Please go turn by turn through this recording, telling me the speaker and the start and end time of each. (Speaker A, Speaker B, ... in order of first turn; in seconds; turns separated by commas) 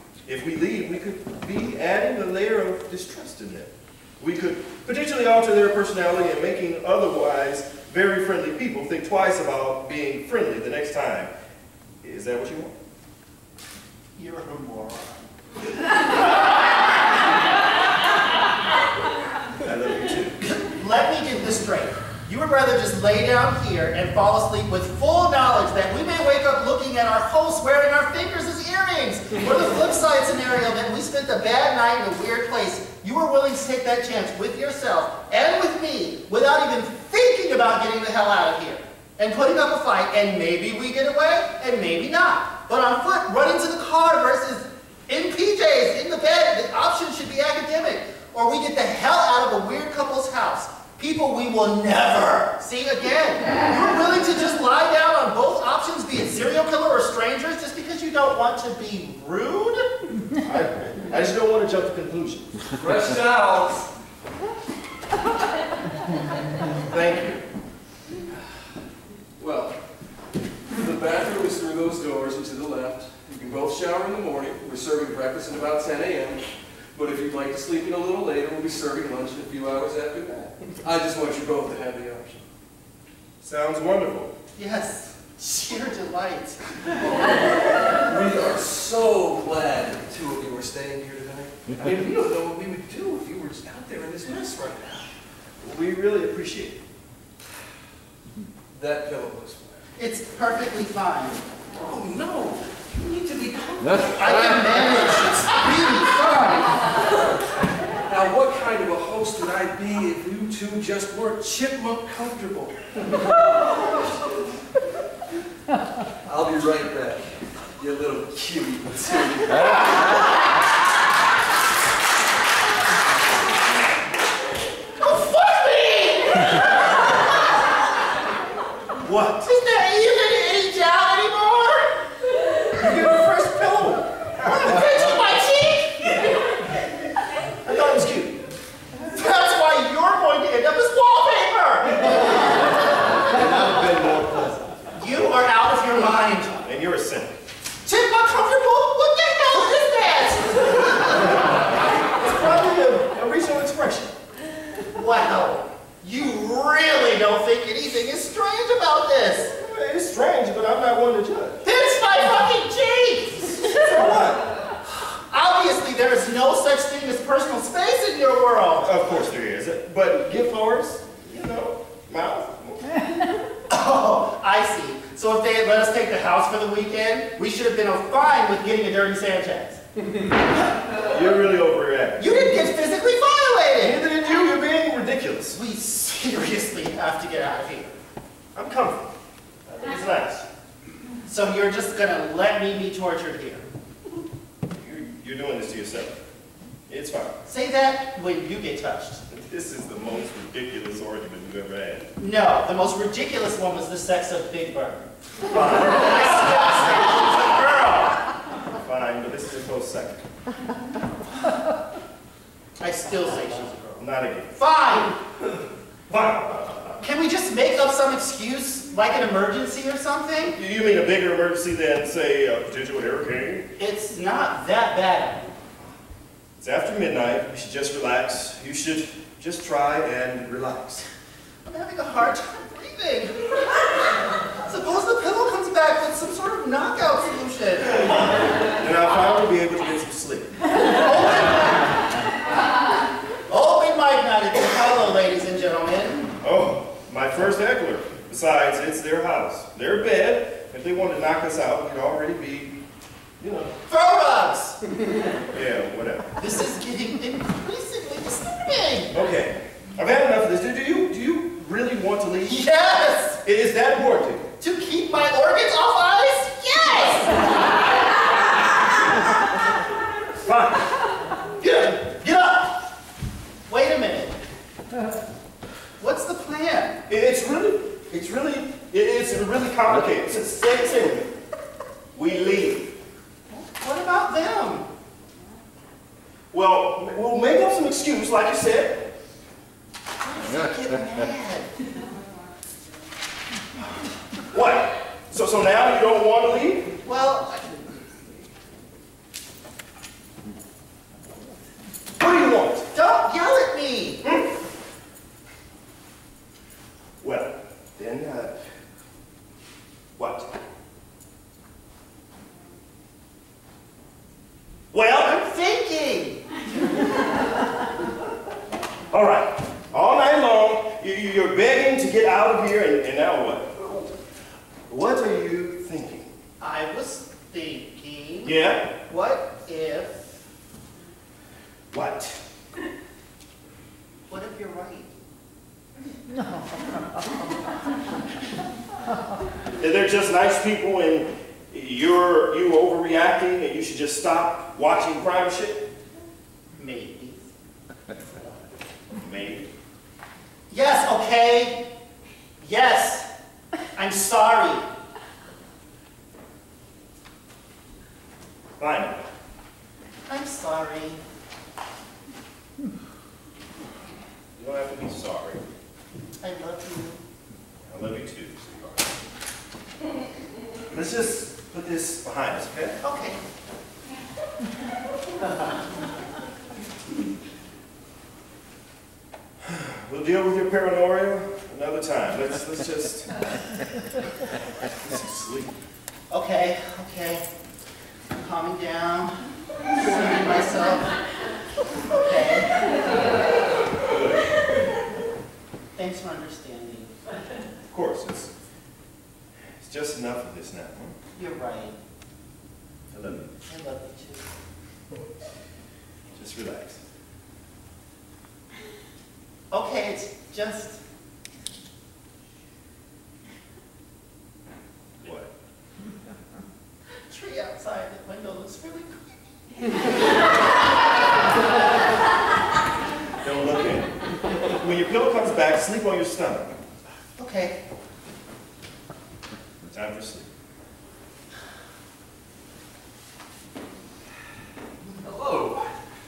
Speaker A: 0.3-11.3, Speaker A: 12.0-12.8, Speaker B: 14.2-15.2, Speaker A: 19.6-20.4, Speaker B: 20.6-59.9, Speaker A: 60.4-62.5, Speaker C: 62.8-63.9, Speaker A: 66.9-67.4, Speaker C: 69.4-69.8, Speaker C: 70.7-82.4, Speaker A: 83.4-84.3, Speaker B: 84.6-86.6, Speaker C: 87.1-95.1, Speaker A: 95.6-96.8, Speaker C: 98.7-99.9, Speaker B: 100.0-101.4, Speaker C: 101.7-105.3, Speaker B: 104.2-106.9, Speaker C: 108.1-114.5, Speaker C: 116.2-120.0, Speaker B: 125.0-127.1, Speaker B: 129.0-132.1, Speaker A: 132.8-134.1, Speaker B: 134.4-136.5, Speaker A: 137.7-138.4, Speaker B: 139.1-142.7, Speaker A: 143.3-144.8, Speaker B: 145.0-146.6, Speaker A: 146.6-147.4, Speaker B: 147.8-151.3, Speaker A: 152.0-154.1, Speaker B: 154.9-159.5, Speaker A: 159.6-161.6, Speaker B: 161.6-163.8, Speaker A: 163.7-164.4, Speaker B: 165.3-168.9, Speaker A: 168.8-172.9, Speaker B: 173.7-179.8, Speaker A: 181.0-182.5, Speaker B: 182.2-184.0, Speaker A: 183.8-185.6, Speaker B: 185.5-188.0, Speaker A: 188.6-189.1, Speaker A: 189.7-190.4, Speaker B: 189.8-190.3, Speaker B: 191.2-193.7, Speaker A: 194.8-196.2, Speaker A: 196.9-197.4, Speaker B: 197.5-199.2, Speaker A: 199.3-202.1, Speaker B: 202.2-208.2, Speaker A: 205.5-207.6, Speaker A: 208.8-210.3, Speaker B: 212.8-214.0, Speaker A: 214.0-214.5, Speaker B: 214.6-215.2, Speaker A: 216.1-216.9, Speaker B: 217.0-220.6, Speaker A: 220.5-223.7, Speaker B: 223.8-225.5, Speaker A: 226.6-231.1, Speaker B: 231.7-238.2, Speaker A: 238.7-240.5, Speaker B: 240.8-242.0, Speaker B: 243.5-246.3, Speaker A: 246.4-252.8, Speaker A: 253.4-253.8, Speaker B: 253.9-254.8, Speaker A: 255.5-256.3, Speaker B: 256.4-259.1, Speaker A: 259.1-262.7, Speaker B: 262.4-263.4, Speaker A: 263.4-264.5, Speaker B: 264.6-267.6, Speaker A: 270.4-270.9, Speaker B: 271.6-272.8, Speaker B: 273.7-274.4, Speaker B: 276.0-277.0, Speaker A: 277.1-281.3, Speaker A: 282.1-282.9, Speaker B: 283.5-284.9, Speaker A: 286.5-289.1, Speaker B: 290.2-291.8, Speaker A: 294.5-296.9, Speaker B: 297.0-297.7, Speaker A: 302.2-302.9, Speaker B: 302.9-304.2, Speaker A: 307.2-308.6, Speaker A: 310.2-310.5, Speaker A: 314.9-315.4, Speaker B: 315.2-316.6, Speaker A: 319.1-323.9, Speaker A: 324.9-326.3, Speaker B: 326.6-328.5, Speaker A: 328.4-328.9, Speaker B: 329.1-330.2, Speaker A: 331.9-332.4, Speaker B: 334.3-335.1, Speaker A: 339.8-345.9, Speaker B: 346.8-347.4, Speaker A: 349.2-349.7, Speaker B: 350.7-351.9, Speaker B: 352.6-353.3, Speaker B: 354.0-354.9, Speaker A: 358.8-359.2, Speaker B: 360.3-361.2, Speaker A: 364.6-365.6, Speaker B: 366.4-367.2, Speaker A: 367.9-368.8, Speaker A: 370.9-373.0, Speaker B: 373.0-373.4, Speaker A: 379.6-383.5, Speaker A: 385.0-385.8, Speaker B: 386.3-387.4, Speaker B: 388.3-391.2, Speaker B: 392.1-392.7, Speaker A: 394.1-394.4, Speaker B: 395.9-397.2, Speaker A: 397.9-398.5, Speaker A: 399.8-401.2, Speaker B: 401.4-402.0, Speaker A: 403.1-403.5, Speaker B: 403.6-404.5, Speaker A: 406.4-407.0, Speaker B: 409.7-411.0, Speaker A: 415.2-415.5, Speaker B: 417.3-420.0, Speaker A: 423.4-424.2, Speaker A: 424.7-426.8, Speaker B: 427.4-427.8, Speaker A: 429.9-430.5, Speaker C: 435.2-435.9